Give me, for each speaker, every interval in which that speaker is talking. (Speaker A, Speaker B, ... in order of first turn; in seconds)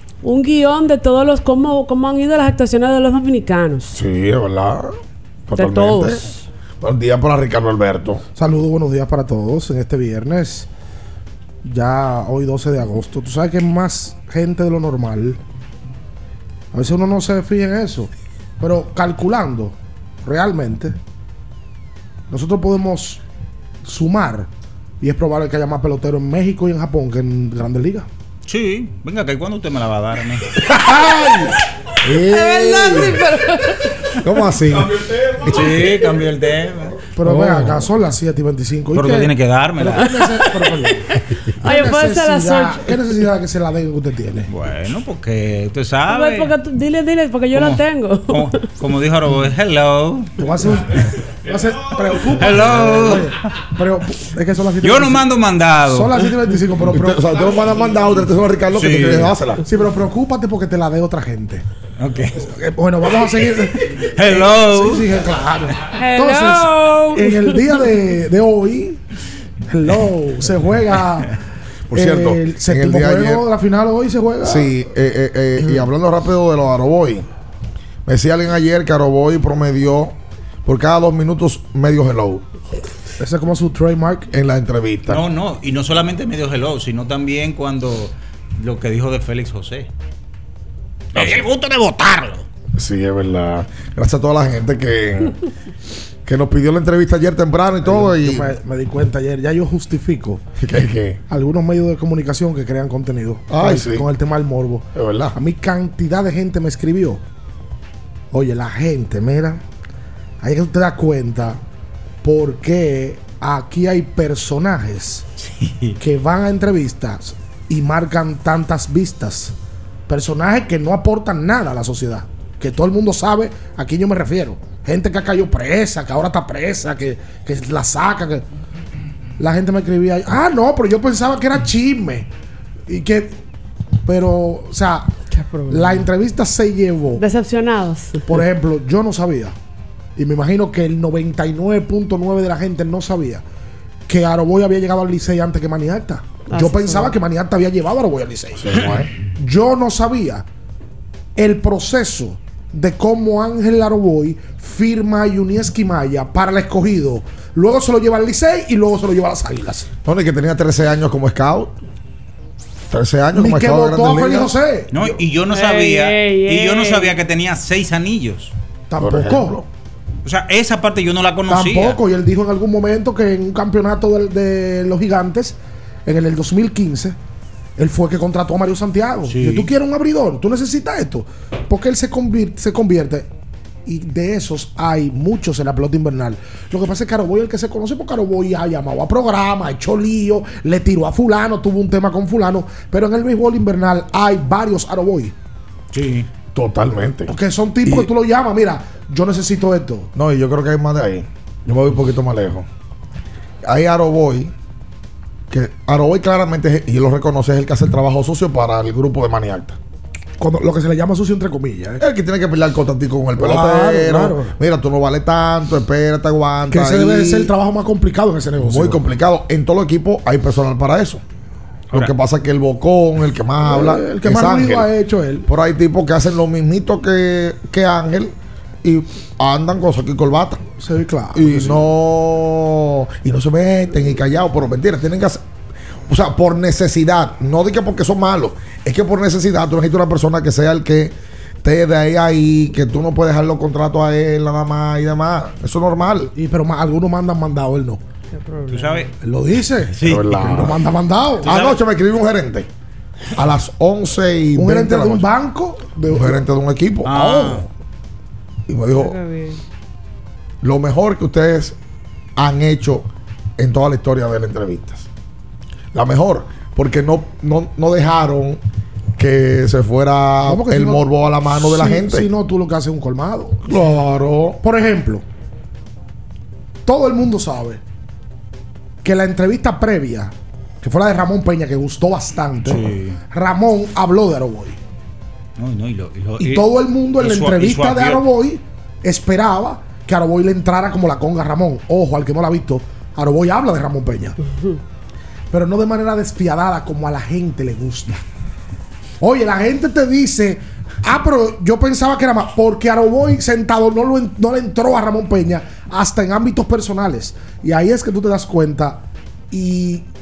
Speaker A: 0.2-3.9, 5.5-6.4, 32.2-33.9, 40.0-43.1, 46.1-48.5, 66.0-67.8, 135.3-136.1, 137.2-138.2, 146.5-147.2, 165.5-167.2, 248.3-249.1, 258.9-259.6, 294.5-294.8
Speaker B: 3.9-4.9, 5.5-8.2, 30.7-33.3, 34.2-35.9, 56.9-59.6, 71.9-73.5, 74.4-77.2, 78.1-80.1, 80.7-82.4, 84.3-85.2, 91.2-91.4, 92.8-95.4, 96.3-98.5, 100.6-101.2, 103.5-104.1, 105.0-105.4, 148.6-149.1, 160.1-161.7, 162.9-164.6, 169.0-169.7, 196.5-198.1, 200.2-202.7, 203.6-204.5, 205.5-209.8, 212.0-217.5, 218.6-221.2, 221.9-224.9, 225.5-230.7, 231.3-235.4, 236.1-246.3, 250.0-250.8, 251.4-252.7, 253.3-255.3, 256.1-257.7, 258.7-259.2, 260.6-261.8, 262.4-265.1, 265.9-268.6, 269.2-272.3, 273.6-274.6
Speaker C: 8.4-10.7, 11.6-15.4, 16.7-21.0, 22.3-23.2, 23.9-24.5, 25.0-28.1, 37.2-41.1, 41.6-44.5, 50.4-55.3, 55.9-57.2, 59.6-61.6, 62.4-69.0, 69.7-71.4, 71.9-74.7, 75.6-75.9, 83.2-84.3, 97.8-100.4, 101.3-107.2, 108.3-109.6, 110.4-111.6, 112.2-115.2, 116.0-119.5, 120.1-128.4, 129.4-132.3, 132.9-133.3, 134.1-135.2, 135.7-137.2, 138.3-139.6, 140.2-143.4, 144.1-150.4, 151.4-159.9, 163.3-164.9, 168.9-169.6, 171.5-177.2, 177.8-183.3, 183.9-195.3, 197.3-200.1, 210.4-212.0, 213.4-214.6, 216.7-219.0, 223.6-225.5, 230.8-231.9, 246.3-248.0, 249.2-251.6, 254.6-256.4, 270.5-273.7, 274.6-275.2, 276.9-277.8, 279.0-284.8, 286.4-294.4, 295.5-298.2, 299.2-310.1
Speaker D: 28.5-30.5, 35.5-37.9, 38.9-40.1, 44.5-46.5, 47.5-50.3, 52.4-53.3, 54.8-56.2, 58.8-59.4, 62.0-62.5, 63.9-65.1, 85.1-89.9, 91.1-92.4, 115.4-116.0, 164.9-168.5, 170.2-172.0, 179.3-179.7, 195.9-196.3, 248.7-249.1, 249.9-250.6, 251.4-251.8, 257.1-257.7, 282.6-283.2, 285.6-288.2